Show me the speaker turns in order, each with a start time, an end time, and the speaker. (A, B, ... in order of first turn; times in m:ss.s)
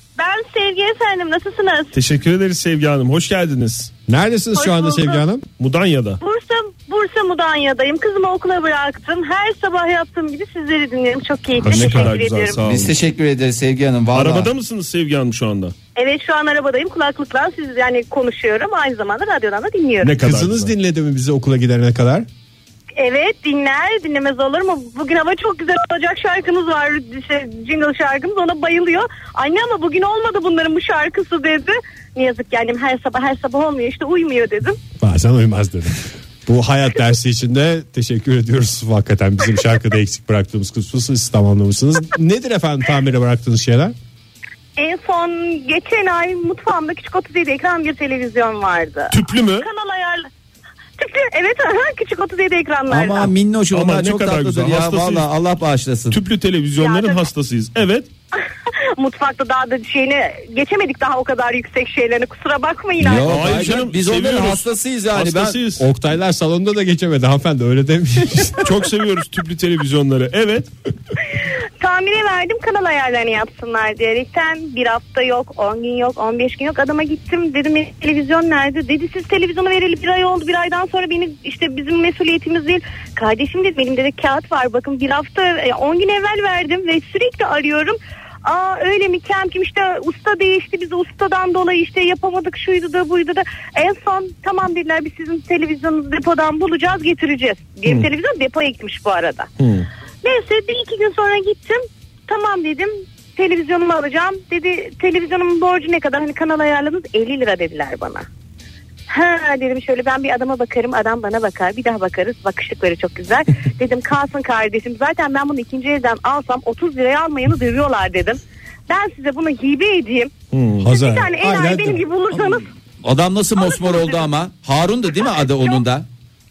0:00.2-0:01.9 A
0:01.9-0:03.9 B
0:04.1-0:05.4 C
0:04.5-0:05.2 A
0:05.6-0:06.2 B
0:06.2-0:12.6 A
0:11.6-0:13.0 B
0:11.6-0:12.2 C
0:12.6-0:14.5 D
0:14.1-0:15.7 B
0:15.9-0:20.2 A
0:20.0-0:20.7 B
0:20.1-0:22.2 C
0:23.0-0:34.8 A
0:35.0-0:43.9 C
0:44.8-0:50.3 A
0:49.1-0:49.7 B
0:51.0-0:53.3 A
0:52.9-0:56.2 D
0:53.7-0:55.3 B
0:56.1-0:58.1 B
0:56.8-0:57.3 A
0:59.0-1:03.7 A
1:03.0-1:05.6 D
1:03.2-1:05.8 B
1:05.8-1:08.7 C
1:08.6-1:10.7 B
1:11.8-1:39.5 A
1:39.6-1:39.9 B
1:40.2-1:48.3 A
1:49.1-2:00.3 A
2:00.5-2:00.9 B
2:00.8-2:02.0 C
2:00.8-2:02.6 A
2:02.3-2:06.0 D
2:03.6-2:04.3 A
2:05.2-2:05.8 A